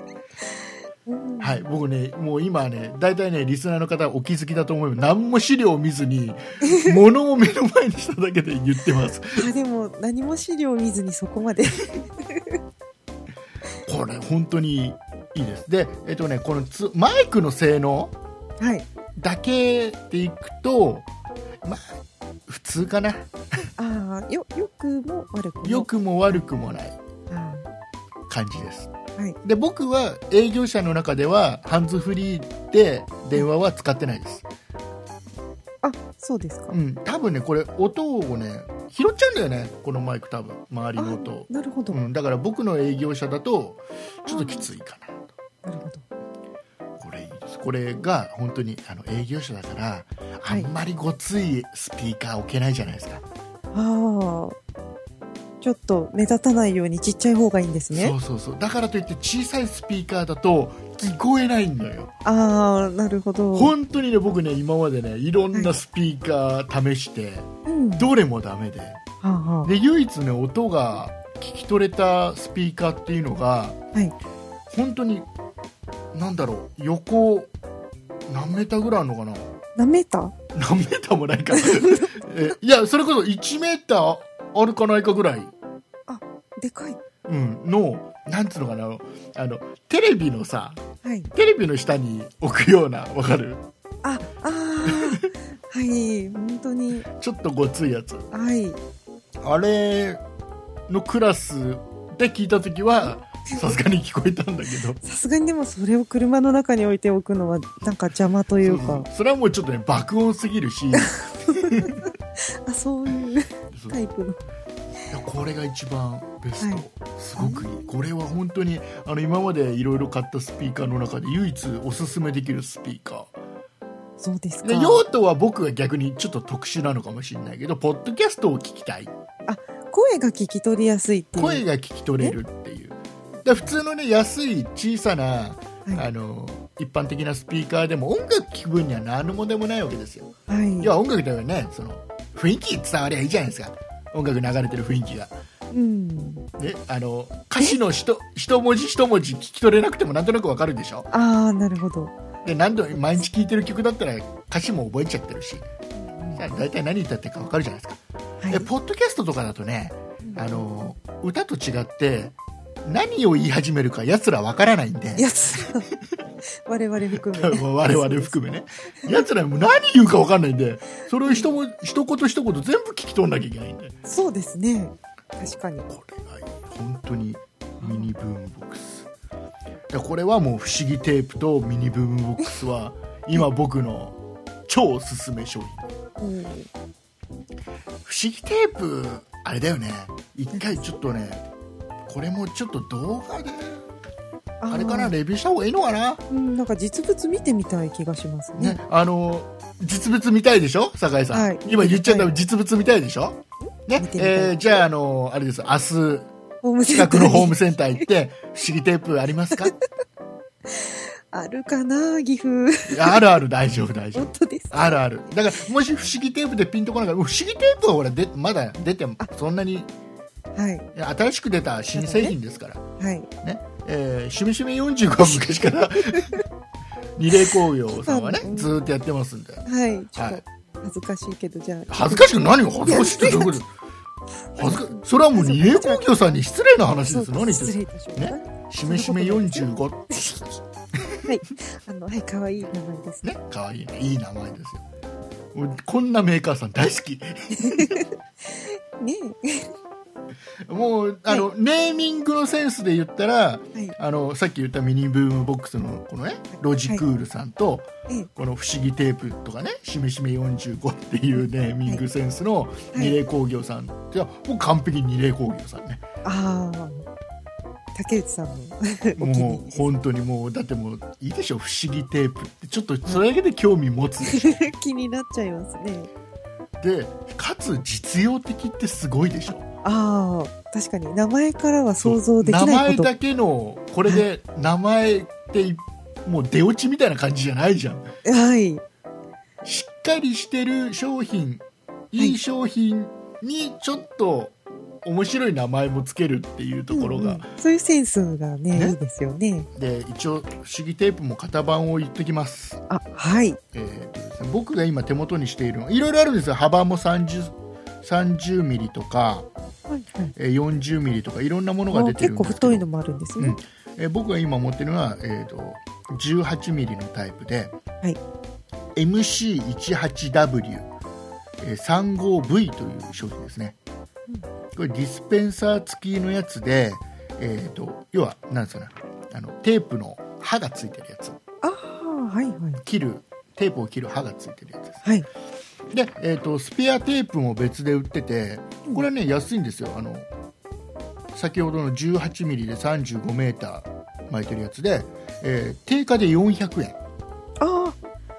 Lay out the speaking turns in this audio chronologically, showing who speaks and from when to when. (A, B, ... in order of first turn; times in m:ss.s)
0:01.0-0:01.6 A
0:01.4-0:09.5 B
0:06.6-0:06.9 A
0:09.3-0:12.6 A
0:13.8-0:18.1 B
0:18.6-0:18.8 A
0:19.2-0:21.1 B
0:21.6-0:22.0 B
0:22.5-0:23.3 B
0:23.6-0:25.9 A
0:25.6-0:27.0 B
0:27.3-0:27.6 A
0:28.3-0:34.4 B
0:35.8-0:36.8 A
0:36.7-0:45.3 B
0:41.0-0:42.0 A
0:44.2-0:44.7 A
0:45.6-0:46.0 A
0:47.0-0:53.2 B
0:53.7-0:54.6 A
0:55.6-0:58.1 A
0:57.9-1:02.1 B
1:02.2-1:03.7 A
1:03.5-1:09.0 B
1:07.6-1:08.1 A
1:09.2-1:09.7 A
1:09.6-1:13.8 B
1:14.7-1:15.3 B
1:16.1-1:17.5 B
1:18.3-1:19.5 B
1:19.8-1:20.3 A
1:20.5-1:25.5 B
1:21.5-1:22.1 A
1:26.1-1:27.0 A
1:27.2-1:30.8 B
1:31.0-1:31.3 A
1:31.3-1:33.6 B
1:34.0-1:37.1 A
1:34.8-1:35.2 B
1:37.1-1:38.3 B
1:38.3-1:38.8 A
1:39.4-1:40.2 B
1:40.9-1:45.0 B
1:45.0-1:49.1 A
1:48.6-1:52.0 B
1:51.0-1:54.4 A
1:55.1-2:03.3 B
1:57.4-1:57.6 A
2:04.2-2:05.0 A
2:04.6-2:09.1 B
2:09.5-2:11.6 A
2:11.4-2:25.4 B
2:20.5-2:20.9 A
2:25.7-2:26.4 A
2:26.6-2:31.1 B
2:31.1-2:32.1 A
2:32.4-2:35.6 B
2:36.0-2:36.4 A
2:36.3-2:46.0 B
2:38.4-2:38.7 A
2:40.2-2:40.6 A
2:45.2-2:45.9 A
2:46.6-2:48.4 A
2:47.2-2:54.0 B
2:51.2-2:51.5 A
2:54.0-2:55.9 A
2:55.4-2:59.1 B
2:57.8-2:58.1 A
2:59.9-3:05.9 B
3:06.2-3:06.7 A
3:08.0-3:11.4 B
3:10.5-3:10.9 A
3:12.0-3:13.8 B
3:14.6-3:15.1 A
3:14.7-3:16.2 B
3:16.3-3:18.8 A
3:18.6-3:26.3 B
3:21.3-3:22.3 A
3:23.9-3:24.6 A
3:26.6-3:27.6 A
3:26.9-3:29.7 B
3:30.7-3:33.2 A
3:32.9-3:39.9 B
3:34.1-3:35.0 A
3:40.6-3:40.9 A
3:40.9-3:42.8 B
3:41.9-3:42.3 A
3:43.0-3:43.3 A
3:43.4-3:46.4 B
3:46.0-3:46.4 A
3:47.2-3:49.6 B
3:47.9-3:48.7 A
3:49.6-3:53.6 A
3:50.2-3:50.4 B
3:51.9-3:53.7 B
3:54.5-3:56.0 A
3:54.6-4:00.1 B
3:57.1-4:00.5 A
4:00.9-4:01.2 B
4:01.2-4:03.2 A
4:03.2-4:04.8 B
4:05.5-4:08.0 B
4:07.5-4:09.7 A
4:10.6-4:26.0 B
4:26.2-4:27.0 A
4:27.9-4:29.9 A
4:29.2-4:34.7 B
4:34.2-4:36.1 A
4:36.8-4:39.7 B
4:39.8-4:43.1 A
4:42.0-4:48.1 B
4:48.2-4:48.8 A
4:49.6-4:57.5 B
4:56.9-4:59.7 A
4:59.7-5:02.8 B
5:02.9-5:03.6 A
5:03.7-5:09.5 B
5:09.9-5:10.3 A
5:10.4-5:12.8 B
5:11.9-5:13.6 A
5:13.4-5:17.7 B
5:19.0-5:20.9 B
5:21.6-5:23.8 B
5:24.7-5:31.4 B
5:31.6-5:32.8 A
5:32.8-5:35.0 B
5:35.9-5:40.3 B
5:41.3-5:47.0 B
5:47.6-5:48.0 A